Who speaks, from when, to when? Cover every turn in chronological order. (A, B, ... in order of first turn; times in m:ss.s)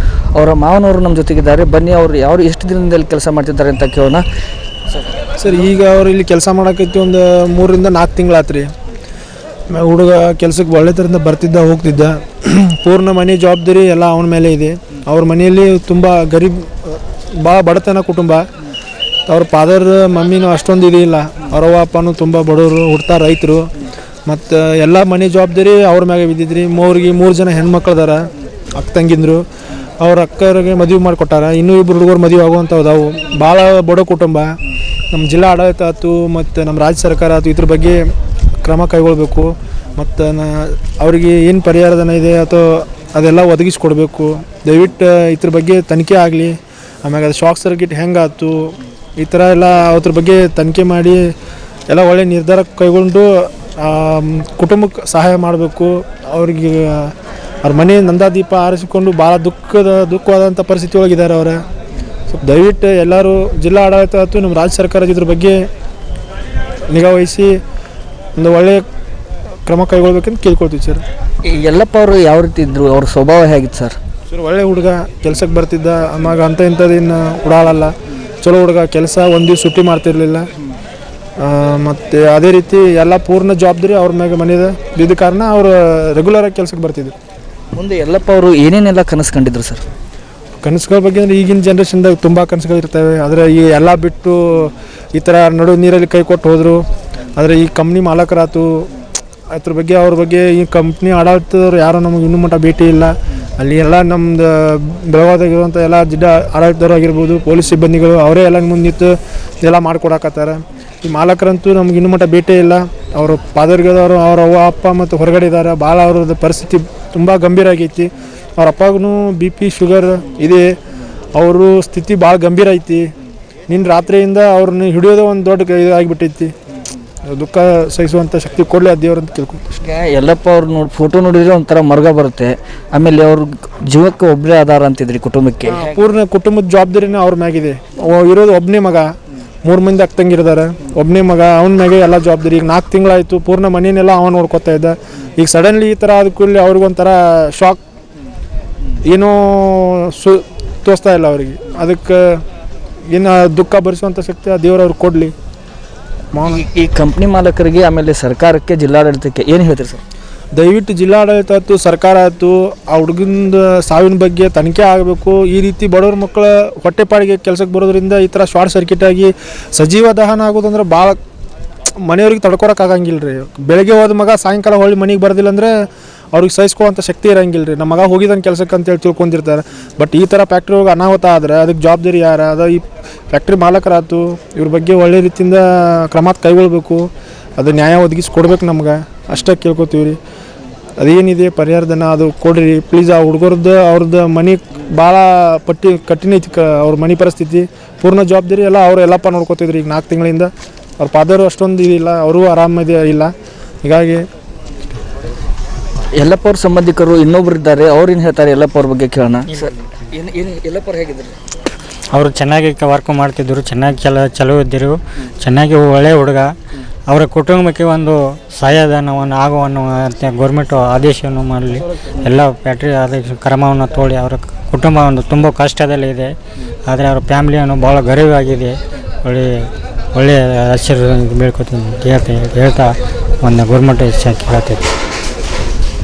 0:00.3-0:04.2 A
0:05.4-0:08.7 B
0:09.7-0:18.4 B
0:19.3-0:23.7 B
0:24.3-0:29.4 B
0:30.0-0:34.5 B
0:35.1-0:38.0 B
0:38.6-0:51.3 B
0:51.9-1:01.6 B
1:02.3-1:05.6 B
1:06.9-1:07.6 B
1:08.4-1:08.8 B
1:09.6-1:11.0 B
1:11.4-1:14.0 A
1:14.3-1:20.5 B
1:21.4-1:27.1 B
1:27.7-1:29.8 A
1:30.6-1:36.8 B
1:37.4-1:38.8 B
1:39.5-2:00.7 B
2:01.3-2:03.1 B
2:03.7-2:06.5 B
2:07.3-2:09.7 B
2:09.8-2:16.0 A
2:15.7-2:19.1 B
2:19.6-2:27.8 B
2:29.0-2:32.4 B
2:33.1-2:35.3 B
2:36.3-2:36.6 B
2:36.4-2:40.0 A
2:40.5-2:51.2 B
2:52.0-2:55.7 B
2:56.3-3:10.2 B
3:11.0-3:23.3 B
3:23.8-3:24.2 B
3:26.2-3:31.4 A
3:32.1-3:36.5 C
3:37.1-3:54.8 C